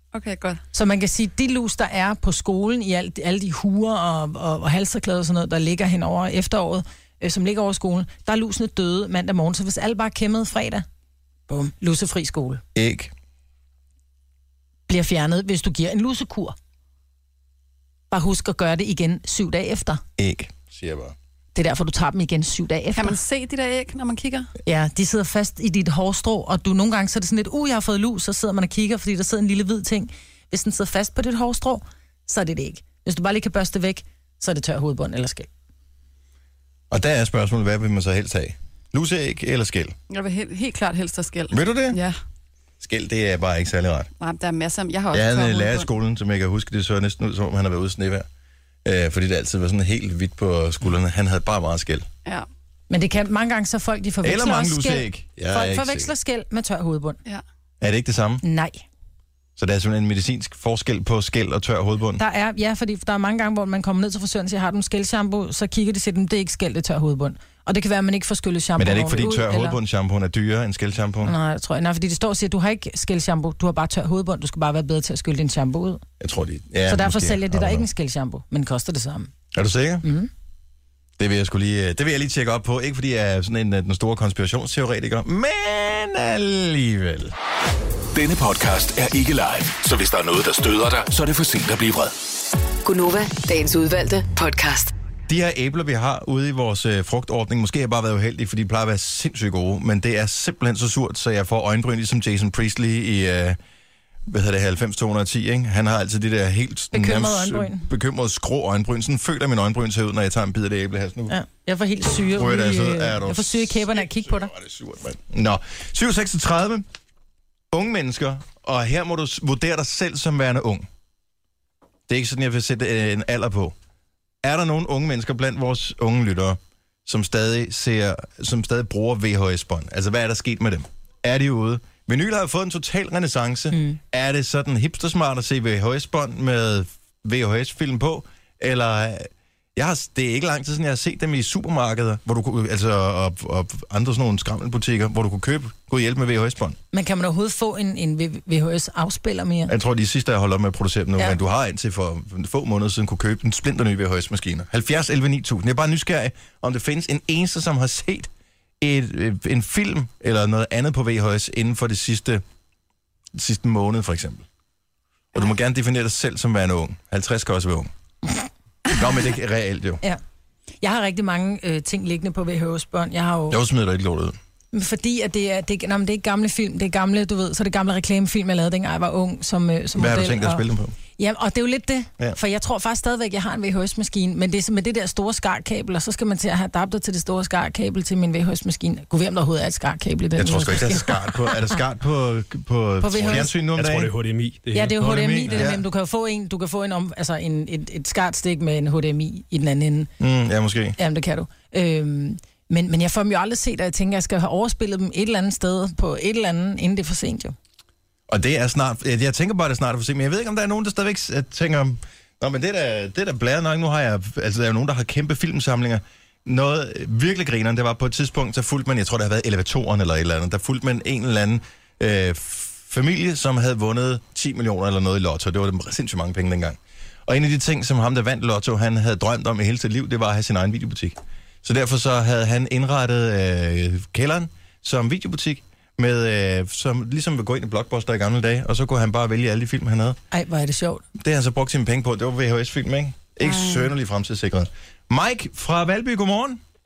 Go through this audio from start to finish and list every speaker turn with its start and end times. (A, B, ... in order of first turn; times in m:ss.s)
0:00.1-0:00.6 A
0:00.7-0:10.8 B
0:11.5-0:12.6 B
0:12.7-0:13.1 C
0:14.9-0:16.6 B
0:18.1-0:20.0 B
0:20.2-0:21.1 C
0:21.5-0:23.2 B
0:23.0-0:24.5 A
0:24.6-0:35.5 B
0:36.9-0:39.9 C
0:40.1-0:42.2 A
0:41.5-0:42.0 C
0:42.8-0:44.1 C
0:44.2-0:45.9 A
0:45.1-0:48.3 C
0:48.8-0:52.1 C
0:52.9-0:57.2 B
0:54.2-0:56.1 C
0:57.8-0:58.4 C
0:58.4-0:58.8 B
0:59.6-1:02.2 C
1:02.2-1:09.8 B
1:08.8-1:11.3 C
1:11.2-1:16.0 B
1:16.2-1:17.8 C
1:16.9-1:19.3 B
1:19.5-1:20.0 C
1:20.0-1:20.3 B
1:21.2-1:27.3 C
1:28.1-1:32.1 D
1:32.8-1:34.9 E
1:35.3-1:43.6 C
1:44.3-1:51.4 C
1:46.9-1:47.9 B
1:51.3-1:54.5 B
1:52.3-1:56.8 C
1:57.7-2:00.9 C
2:02.1-2:03.7 C
2:04.4-2:26.8 C
2:13.7-2:14.0 B
2:26.9-2:29.7 B
2:29.7-2:38.3 C
2:38.8-2:42.4 C
2:43.3-2:44.4 C
2:45.3-2:47.9 C
2:48.9-2:50.0 C
2:50.8-2:53.6 B
2:53.5-2:54.4 C
2:54.7-3:00.6 B
2:59.9-3:00.9 C
3:01.2-3:11.7 B
3:10.4-3:14.1 C
3:13.0-3:13.5 B
3:13.7-3:15.6 F
3:14.7-3:20.1 B
3:15.0-3:15.8 C
3:20.2-3:21.0 C
3:21.0-3:27.5 B
3:28.3-4:00.2 C
4:00.3-4:01.0 B
4:01.2-4:06.6 C